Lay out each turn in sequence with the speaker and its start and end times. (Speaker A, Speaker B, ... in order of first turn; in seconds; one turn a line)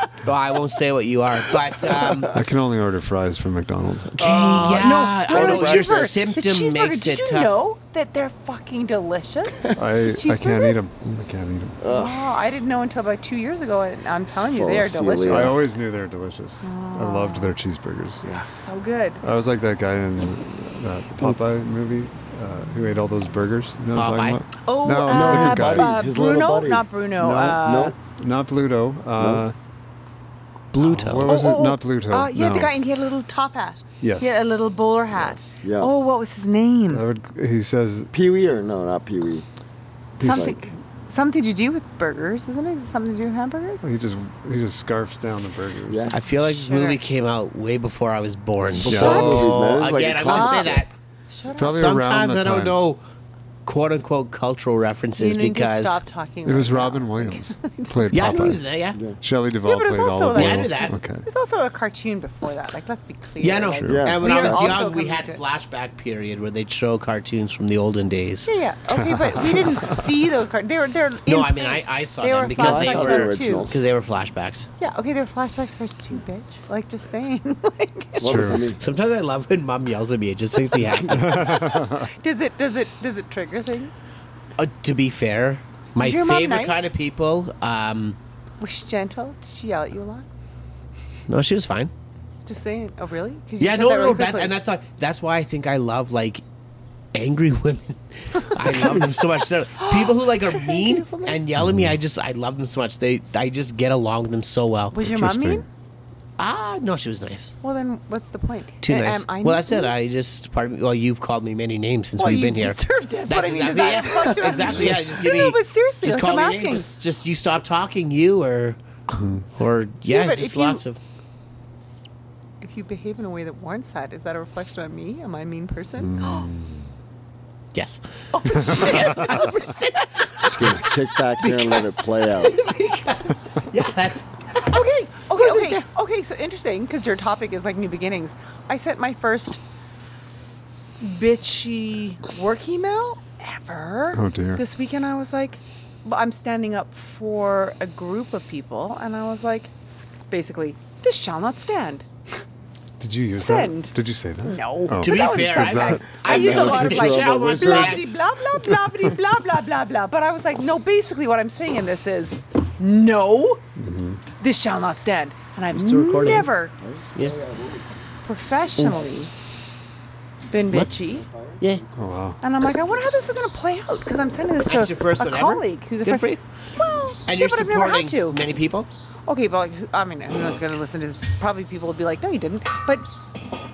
Speaker A: 0.2-2.3
Speaker B: 2.3-4.2
Speaker A: 4.1-7.5
Speaker C: 4.2-6.3
Speaker D: 4.8-10.8
Speaker B: 9.7-11.8
Speaker C: 11.8-12.2
Speaker D: 11.8-15.6
Speaker C: 14.3-15.6
Speaker B: 15.2-18.2
Speaker D: 16.6-17.5
Speaker D: 18.3-19.2
Speaker B: 19.2-25.9
Speaker A: 23.9-24.4
Speaker D: 24.6-27.9
Speaker C: 25.1-27.9
Speaker B: 28.2-29.5
Speaker C: 29.2-29.4
Speaker A: 30.7-31.4
Speaker B: 30.8-32.7
Speaker D: 31.3-37.0
Speaker B: 34.0-34.3
Speaker B: 35.1-35.4
Speaker C: 35.6-35.9
Speaker B: 36.9-38.1
Speaker C: 38.1-39.5
Speaker B: 40.2-40.7
Speaker C: 40.2-40.6
Speaker D: 40.2-43.8
Speaker B: 43.8-46.1
Speaker C: 45.9-46.1
Speaker A: 46.1-50.9
Speaker D: 46.4-47.0
Speaker B: 48.8-49.8
Speaker C: 48.8-50.9
Speaker D: 48.9-52.0
Speaker B: 51.6-52.8
Speaker A: 51.6-53.0
Speaker A: 53.6-56.0
Speaker D: 55.2-58.5
Speaker B: 56.4-58.6
Speaker A: 58.1-59.0
Speaker B: 59.2-61.2
Speaker D: 59.6-65.4
Speaker A: 60.3-60.9
Speaker A: 63.4-68.5
Speaker B: 63.8-64.2
Speaker C: 63.8-64.8
Speaker D: 68.5-73.7
Speaker B: 68.9-70.1
Speaker A: 71.2-74.7
Speaker C: 72.6-73.8
Speaker D: 74.8-78.4
Speaker C: 78.2-78.8
Speaker B: 78.2-78.7
Speaker A: 78.3-81.5
Speaker D: 80.9-84.0
Speaker B: 81.0-82.1
Speaker A: 84.6-88.2
Speaker D: 86.0-86.9
Speaker D: 88.6-90.2
Speaker A: 91.3-91.9
Speaker D: 92.5-94.6
Speaker A: 93.6-96.4
Speaker A: 97.1-105.0
Speaker D: 98.6-99.1
Speaker D: 99.8-101.4
Speaker B: 101.6-102.0
Speaker D: 104.9-105.7
Speaker B: 105.0-105.6
Speaker A: 106.4-107.5
Speaker D: 107.6-109.9
Speaker A: 108.8-118.8
Speaker D: 112.2-116.9
Speaker A: 119.5-121.0
Speaker D: 120.1-120.8
Speaker D: 122.6-126.5
Speaker B: 126.0-126.9
Speaker A: 127.7-129.5
Speaker D: 128.3-130.9
Speaker B: 128.7-129.3
Speaker C: 130.4-132.6
Speaker A: 130.6-130.8
Speaker A: 131.4-134.7
Speaker D: 134.6-139.6
Speaker A: 135.3-135.8
Speaker D: 141.0-149.7
Speaker B: 144.1-144.6
Speaker D: 150.3-152.0
Speaker B: 153.0-156.1
Speaker D: 153.3-163.6
Speaker A: 155.0-158.1
Speaker C: 156.2-158.0
Speaker B: 163.8-164.2
Speaker D: 164.4-166.7
Speaker A: 165.7-166.5
Speaker C: 166.8-167.9
Speaker D: 168.2-169.3
Speaker D: 170.5-171.2
Speaker C: 171.0-171.6
Speaker A: 171.6-171.8
Speaker B: 171.9-172.4
Speaker D: 172.4-178.4
Speaker A: 174.6-176.4
Speaker A: 177.2-178.9
Speaker D: 179.3-183.1